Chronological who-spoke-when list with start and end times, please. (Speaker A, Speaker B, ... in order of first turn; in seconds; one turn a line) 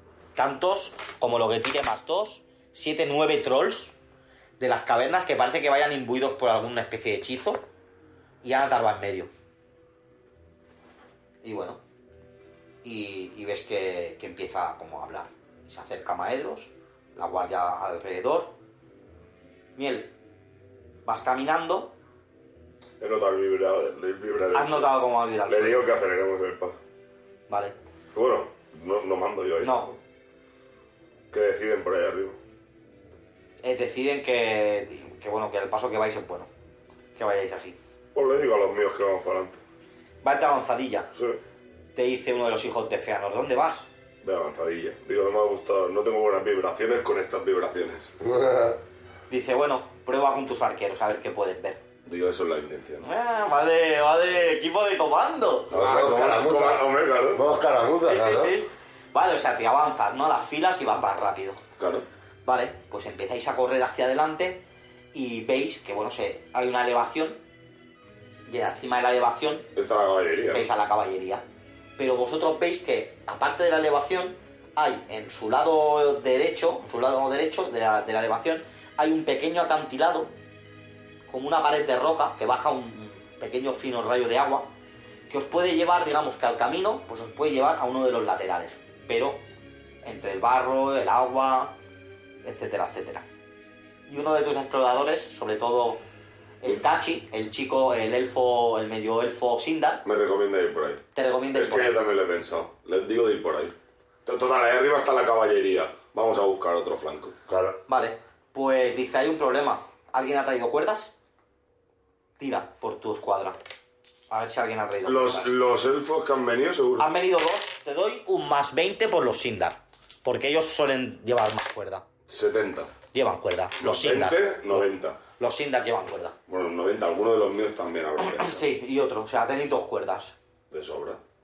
Speaker A: 0.3-3.9
Speaker A: 4.6-7.6
Speaker A: 8.4-9.3
Speaker A: 11.4-11.8
Speaker A: 12.8-18.5
Speaker A: 19.8-20.1
Speaker A: 21.1-21.9
Speaker B: 23.0-26.8
Speaker A: 24.5-25.8
Speaker A: 27.5-27.7
Speaker B: 28.1-30.0
Speaker A: 29.6-29.9
Speaker B: 31.3-32.4
Speaker A: 33.6-36.5
Speaker A: 37.1-37.8
Speaker B: 38.1-39.6
Speaker A: 40.2-41.1
Speaker B: 41.1-41.4
Speaker A: 41.9-43.9
Speaker B: 44.2-48.1
Speaker C: 48.2-48.8
Speaker A: 49.3-51.8
Speaker B: 52.0-53.1
Speaker A: 53.0-55.8
Speaker B: 55.7-57.5
Speaker C: 55.7-58.6
Speaker A: 58.0-61.6
Speaker B: 61.8-62.0
Speaker A: 62.4-64.6
Speaker A: 65.1-67.4
Speaker A: 68.5-69.7
Speaker B: 69.7-70.7
Speaker A: 70.5-71.4
Speaker A: 72.0-80.3
Speaker A: 81.3-84.7
Speaker A: 85.3-89.4
Speaker A: 90.0-91.8
Speaker A: 92.4-93.2
Speaker A: 94.1-96.0
Speaker A: 96.6-100.0
Speaker B: 100.0-107.3
Speaker A: 101.1-102.0
Speaker C: 107.5-107.8
Speaker A: 107.9-111.1
Speaker A: 112.4-113.6
Speaker A: 114.3-115.5
Speaker B: 115.0-117.1
Speaker A: 117.0-122.0
Speaker B: 122.3-122.9
Speaker A: 123.1-126.3
Speaker B: 123.8-125.2
Speaker B: 126.5-128.7
Speaker A: 128.2-130.3
Speaker B: 130.7-131.2